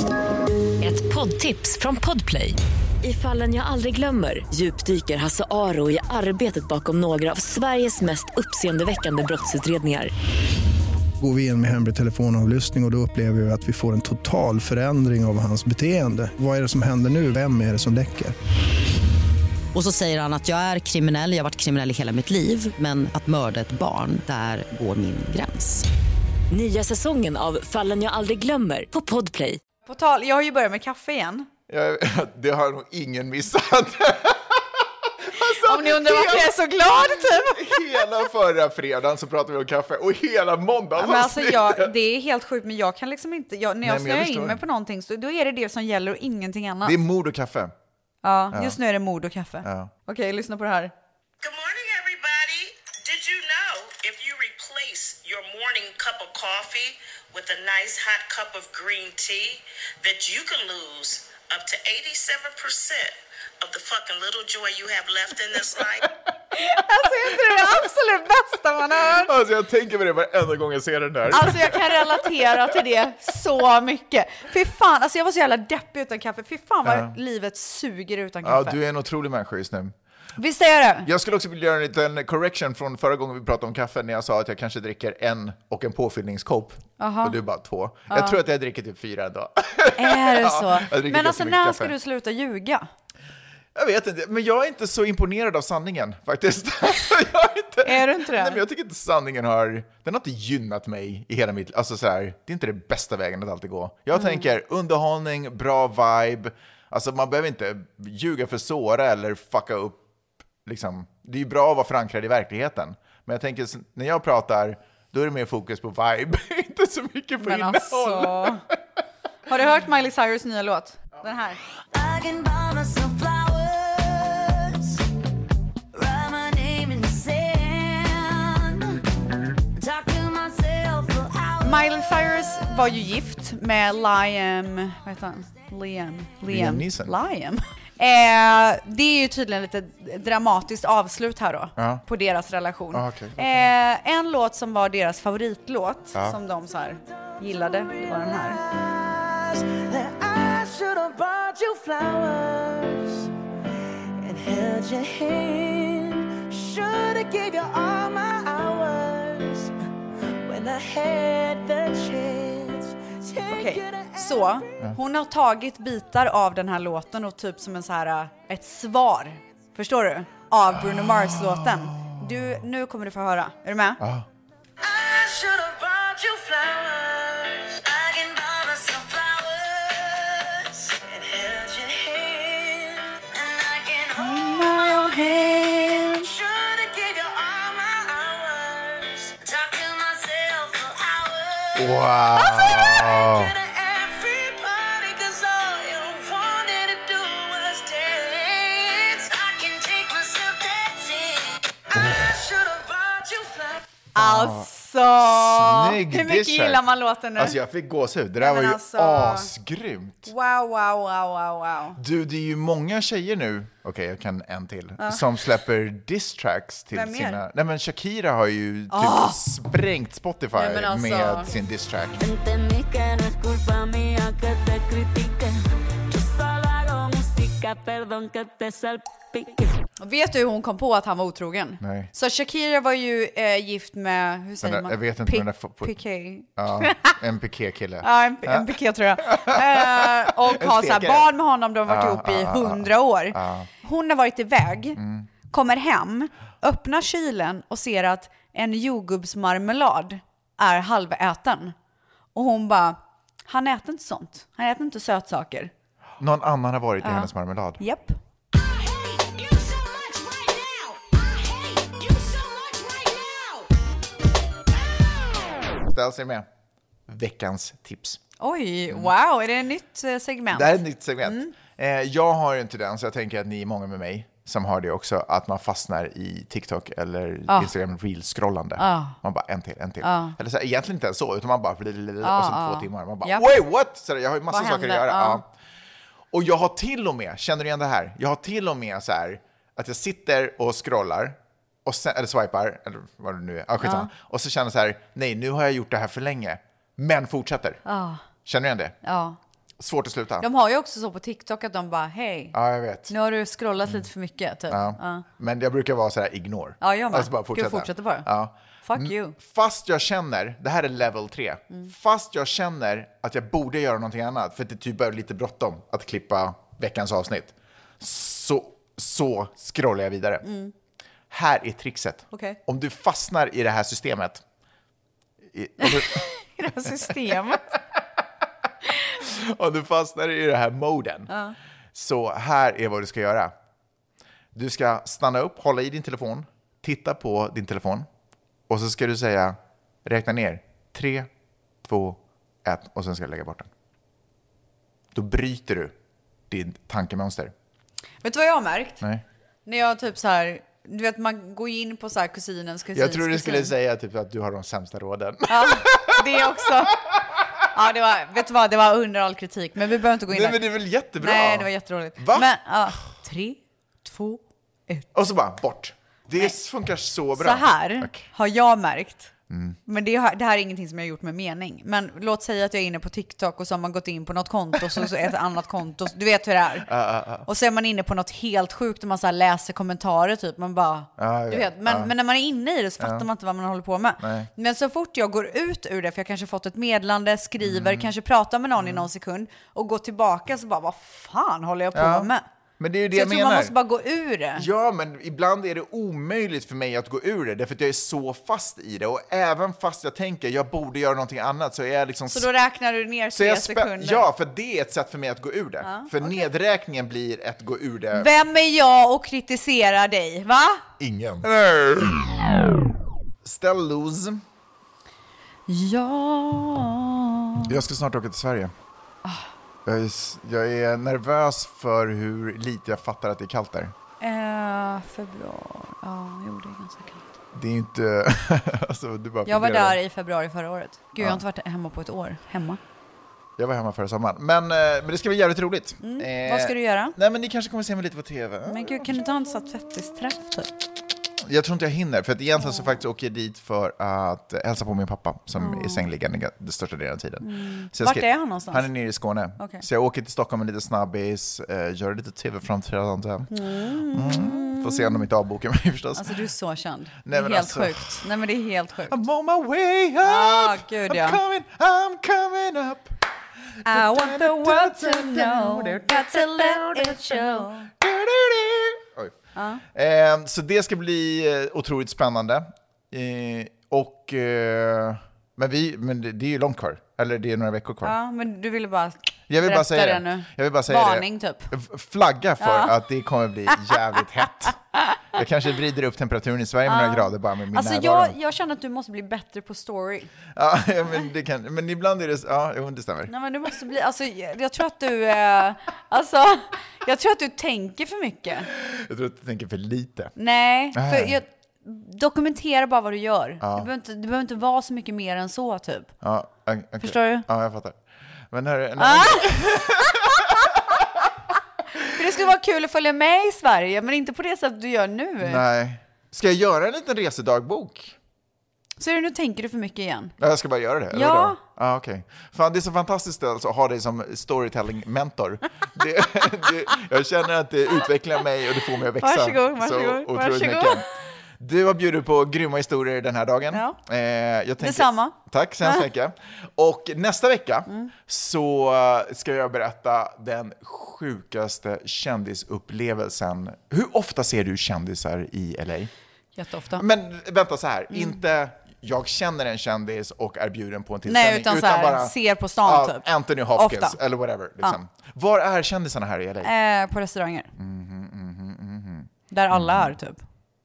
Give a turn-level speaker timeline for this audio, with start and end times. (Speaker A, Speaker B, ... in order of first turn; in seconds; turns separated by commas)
Speaker A: 0.8-10.1, Speaker B: 11.2-18.3, Speaker C: 19.7-25.9, Speaker A: 26.5-29.6, Speaker D: 29.9-31.5, Speaker E: 31.7-41.9, Speaker D: 35.4-37.8, Speaker D: 41.0-47.0, Speaker E: 43.8-44.6, Speaker E: 46.8-47.7, Speaker D: 48.2-50.9, Speaker E: 48.5-48.8, Speaker E: 49.6-49.9, Speaker F: 51.4-66.1, Speaker D: 66.5-69.3, Speaker E: 69.0-72.8, Speaker D: 71.3-78.8, Speaker E: 76.8-77.1, Speaker E: 78.4-80.0, Speaker D: 80.4-81.1, Speaker E: 81.0-91.9, Speaker D: 87.0-87.4, Speaker D: 88.1-88.4, Speaker D: 90.0-92.9, Speaker E: 93.8-110.0, Speaker D: 97.8-98.6, Speaker D: 104.1-104.5, Speaker E: 110.7-118.8, Speaker D: 117.4-118.6, Speaker D: 119.5-121.6, Speaker G: 121.9-125.0, Speaker G: 125.9-129.0, Speaker G: 129.8-131.8, Speaker D: 131.6-148.6, Speaker E: 136.5-137.2, Speaker E: 141.8-142.0, Speaker E: 142.9-143.7, Speaker G: 147.8-153.3, Speaker G: 154.2-159.7, Speaker G: 160.5-164.7, Speaker D: 163.5-174.0, Speaker E: 170.7-172.5, Speaker E: 174.0-174.3, Speaker G: 174.8-203.8, Speaker D: 184.2-186.3, Speaker E: 191.8-193.5, Speaker E: 204.2-206.8, Speaker D: 204.2-207.6, Speaker E: 207.4-210.3, Speaker D: 208.4-209.5, Speaker D: 210.3-212.0, Speaker E: 212.0-222.2, Speaker D: 216.9-217.4, Speaker D: 218.9-219.4, Speaker D: 220.5-221.5, Speaker H: 222.2-225.6, Speaker H: 226.1-229.7, Speaker D: 230.0-237.2, Speaker E: 231.8-232.1, Speaker E: 234.6-235.9, Speaker E: 236.6-241.3, Speaker D: 238.0-245.0, Speaker E: 241.9-243.7, Speaker E: 245.0-245.3, Speaker D: 245.5-251.8, Speaker D: 252.3-255.7, Speaker E: 256.2-257.8, Speaker D: 257.0-258.1, Speaker G: 259.9-260.6, Speaker G: 262.0-263.5, Speaker E: 265.8-266.5, Speaker E: 267.1-268.2, Speaker D: 268.4-271.5, Speaker E: 270.5-285.5, Speaker D: 278.8-279.2, Speaker D: 280.0-280.4, Speaker D: 282.2-283.5, Speaker D: 284.5-285.4, Speaker E: 286.3-297.8, Speaker D: 293.8-294.1, Speaker D: 297.9-298.2, Speaker E: 298.4-299.0, Speaker D: 299.0-299.4, Speaker E: 299.8-300.5, Speaker D: 300.4-302.6, Speaker E: 302.5-303.1, Speaker D: 303.1-305.2, Speaker E: 304.7-320.4, Speaker D: 306.8-308.3, Speaker D: 308.8-309.4, Speaker D: 320.4-320.7, Speaker E: 321.3-324.4, Speaker D: 322.3-322.6, Speaker E: 325.5-326.3, Speaker D: 325.8-327.6, Speaker E: 326.8-327.1, Speaker E: 329.2-331.3, Speaker D: 331.3-331.6, Speaker E: 331.9-333.5, Speaker E: 334.6-338.1, Speaker E: 338.7-341.3, Speaker E: 341.8-343.7, Speaker E: 345.1-345.9, Speaker E: 346.5-347.5, Speaker D: 348.2-349.0, Speaker D: 349.7-353.7, Speaker E: 352.9-356.9, Speaker D: 355.5-357.0, Speaker D: 357.7-360.6, Speaker E: 360.3-362.5, Speaker D: 361.2-365.1, Speaker E: 365.1-368.3, Speaker D: 367.4-369.3, Speaker E: 369.5-369.8, Speaker D: 369.9-376.9, Speaker E: 376.9-377.5, Speaker D: 377.5-392.4, Speaker E: 381.2-382.1, Speaker E: 383.0-383.3, Speaker E: 384.2-384.5, Speaker E: 387.6-388.1, Speaker E: 388.8-389.1, Speaker E: 391.9-393.7, Speaker D: 393.1-394.7, Speaker E: 394.6-402.5, Speaker D: 402.3-404.2, Speaker E: 403.3-408.3, Speaker D: 405.8-406.4, Speaker D: 408.1-410.8, Speaker E: 411.0-412.5, Speaker E: 413.4-414.4, Speaker D: 415.7-417.7, Speaker E: 417.7-418.7, Speaker E: 419.9-423.9, Speaker D: 424.2-427.2, Speaker E: 427.5-430.0, Speaker D: 429.5-432.8, Speaker E: 433.6-439.0, Speaker D: 436.0-437.1, Speaker D: 438.7-440.7, Speaker E: 441.4-453.5, Speaker D: 445.6-446.0, Speaker D: 447.4-448.9, Speaker D: 449.6-449.8, Speaker D: 453.5-455.2, Speaker E: 454.1-456.4, Speaker D: 456.2-459.2, Speaker E: 457.3-458.2, Speaker E: 459.1-463.2, Speaker D: 460.2-461.4, Speaker E: 463.9-469.3, Speaker D: 463.9-467.9, Speaker D: 469.6-469.8, Speaker E: 469.9-478.1, Speaker D: 478.0-481.7, Speaker E: 479.5-484.8, Speaker D: 482.6-482.9, Speaker D: 483.7-484.0, Speaker E: 485.3-488.4, Speaker D: 486.9-490.3, Speaker E: 490.5-493.3, Speaker D: 493.3-498.7, Speaker E: 498.7-500.3, Speaker D: 500.4-506.1, Speaker E: 500.9-501.4, Speaker E: 503.6-503.9, Speaker E: 506.2-508.0, Speaker D: 507.0-507.5, Speaker E: 508.5-511.2, Speaker D: 509.0-510.0, Speaker D: 512.1-515.6, Speaker E: 515.4-518.2, Speaker D: 519.0-520.4, Speaker E: 520.4-531.1, Speaker D: 521.1-521.6, Speaker D: 529.2-531.1, Speaker E: 531.6-546.1, Speaker D: 533.7-534.0, Speaker D: 534.8-536.0, Speaker D: 546.6-547.0, Speaker E: 547.0-556.7, Speaker D: 548.1-548.4, Speaker D: 551.3-554.2, Speaker D: 556.6-557.7, Speaker E: 557.8-560.1, Speaker D: 559.5-560.4